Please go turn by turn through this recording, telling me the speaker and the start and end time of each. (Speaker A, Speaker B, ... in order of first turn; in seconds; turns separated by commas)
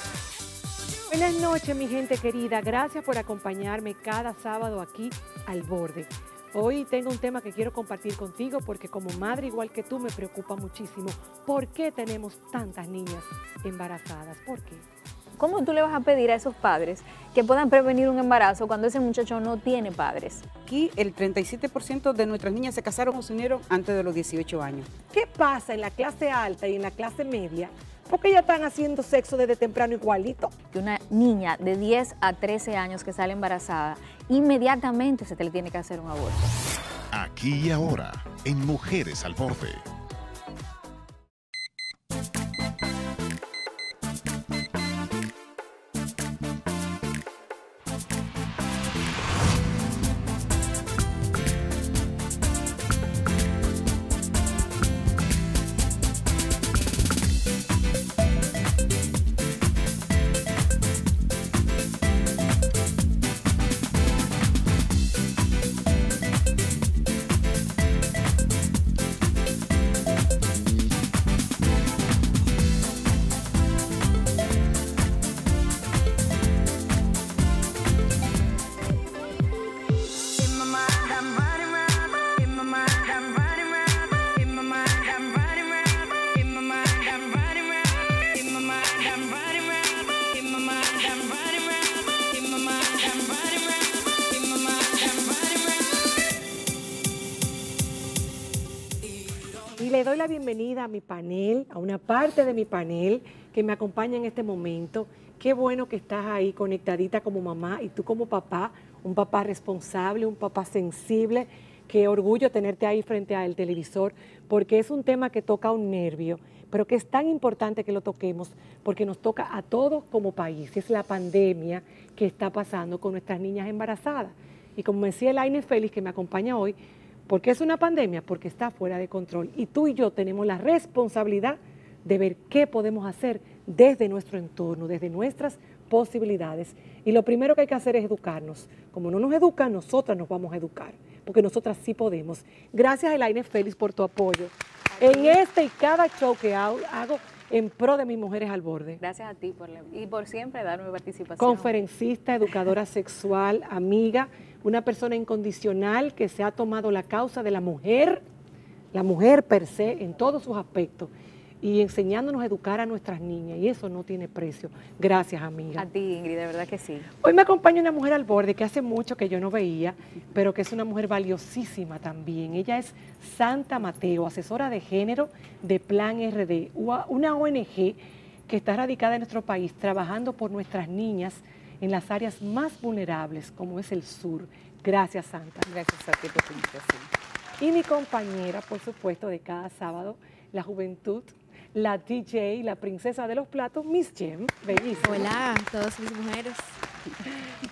Speaker A: 1.1-14.8, Speaker B: 15.4-20.4, Speaker C: 20.6-24.9, Speaker A: 25.1-30.5, Speaker B: 30.7-36.5, Speaker D: 37.1-39.8, Speaker E: 80.7-81.8, Speaker E: 82.7-83.8, Speaker E: 84.4-85.7, Speaker E: 86.3-87.5, Speaker E: 88.6-89.5, Speaker E: 90.3-91.5, Speaker E: 92.7-93.4, Speaker E: 94.9-95.2, Speaker A: 99.7-126.8, Speaker A: 127.3-149.0, Speaker B: 145.0-145.4, Speaker B: 149.0-151.7, Speaker A: 151.4-158.2, Speaker A: 158.9-165.8, Speaker B: 165.8-167.1, Speaker A: 167.2-185.7, Speaker C: 185.7-187.1, Speaker A: 187.6-195.5, Speaker E: 195.0-196.8